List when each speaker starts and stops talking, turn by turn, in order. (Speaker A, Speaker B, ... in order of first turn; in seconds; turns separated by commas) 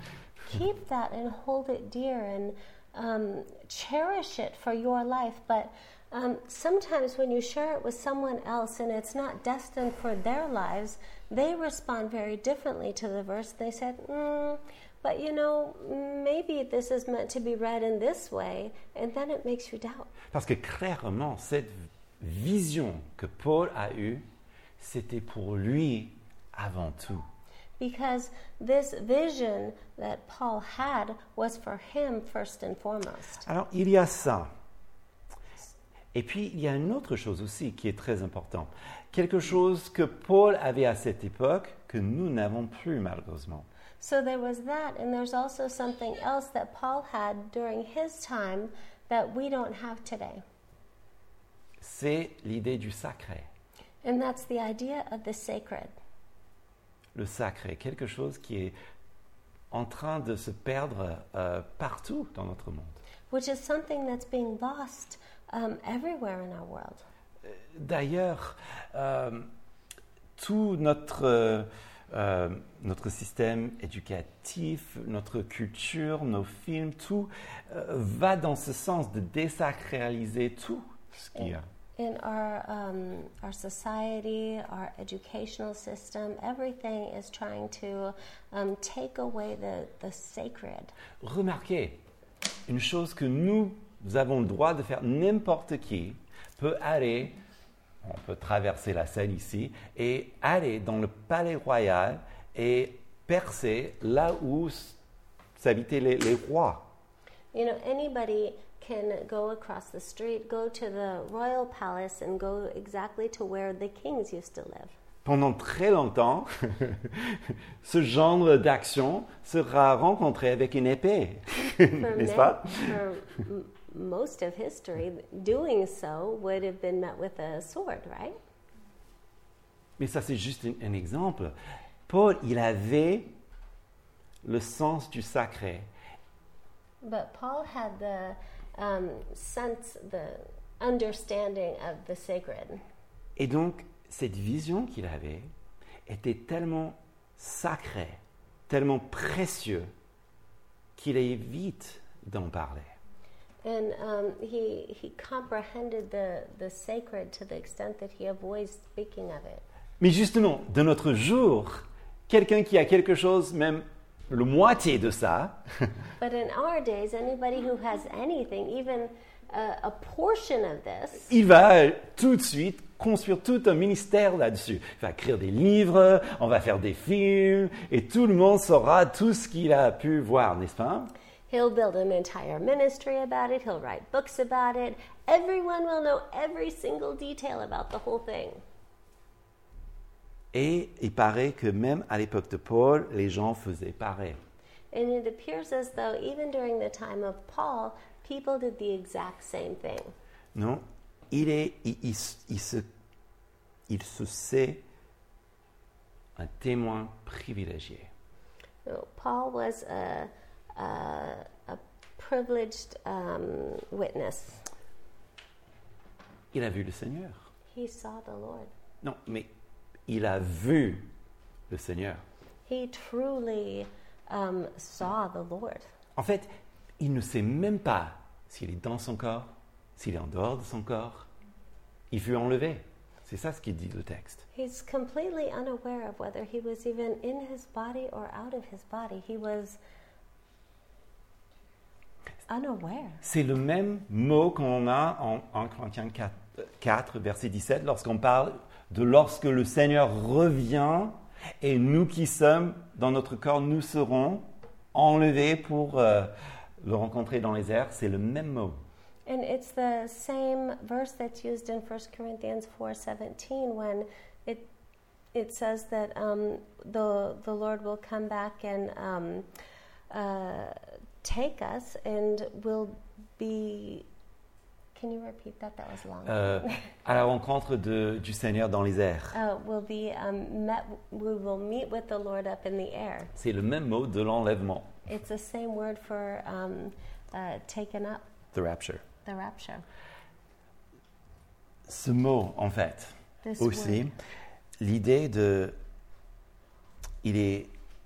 Speaker A: 0.5-20.1, Speaker B: 20.3-24.2, Speaker B: 24.8-27.3, Speaker A: 27.8-33.5, Speaker B: 33.4-34.5, Speaker B: 36.1-43.7, Speaker A: 44.0-50.4, Speaker B: 51.8-53.5, Speaker A: 54.0-55.9, Speaker B: 57.1-58.7, Speaker B: 59.7-63.0, Speaker A: 63.3-67.1, Speaker B: 67.5-69.5, Speaker B: 70.4-81.7, Speaker A: 81.3-90.9, Speaker B: 91.2-92.0, Speaker B: 92.7-97.4, Speaker B: 98.0-105.0, Speaker B: 105.6-106.8, Speaker A: 107.5-114.9, Speaker B: 115.2-123.0, Speaker A: 122.0-128.4, Speaker B: 130.0-131.6, Speaker B: 132.1-133.3, Speaker B: 134.4-135.9, Speaker A: 137.0-142.8, Speaker B: 143.4-145.5, Speaker B: 146.1-149.9, Speaker B: 151.0-152.9, Speaker A: 153.6-159.6, Speaker B: 160.0-165.6, Speaker A: 166.2-171.3, Speaker B: 171.3-181.1, Speaker A: 181.5-188.6, Speaker B: 190.5-194.4, Speaker A: 194.9-200.1, Speaker B: 200.6-202.9, Speaker B: 203.9-204.8, Speaker B: 206.3-208.1, Speaker A: 208.8-214.6, Speaker B: 216.5-217.4, Speaker A: 217.7-218.7, Speaker B: 219.0-219.5, Speaker B: 220.1-221.1, Speaker B: 221.7-222.2, Speaker A: 222.7-225.8, Speaker B: 226.2-231.3, Speaker B: 232.1-234.4, Speaker A: 234.5-239.8, Speaker A: 242.5-243.2, Speaker B: 243.2-258.8, Speaker A: 259.3-264.7, Speaker A: 265.3-269.5, Speaker A: 270.1-274.1, Speaker A: 274.9-276.9, Speaker B: 276.2-279.4, Speaker A: 279.3-283.3, Speaker B: 283.4-284.9, Speaker A: 285.1-288.2, Speaker B: 288.5-289.0, Speaker A: 289.2-289.8, Speaker B: 291.9-294.2, Speaker A: 293.4-294.1, Speaker B: 294.8-295.8, Speaker B: 297.2-297.7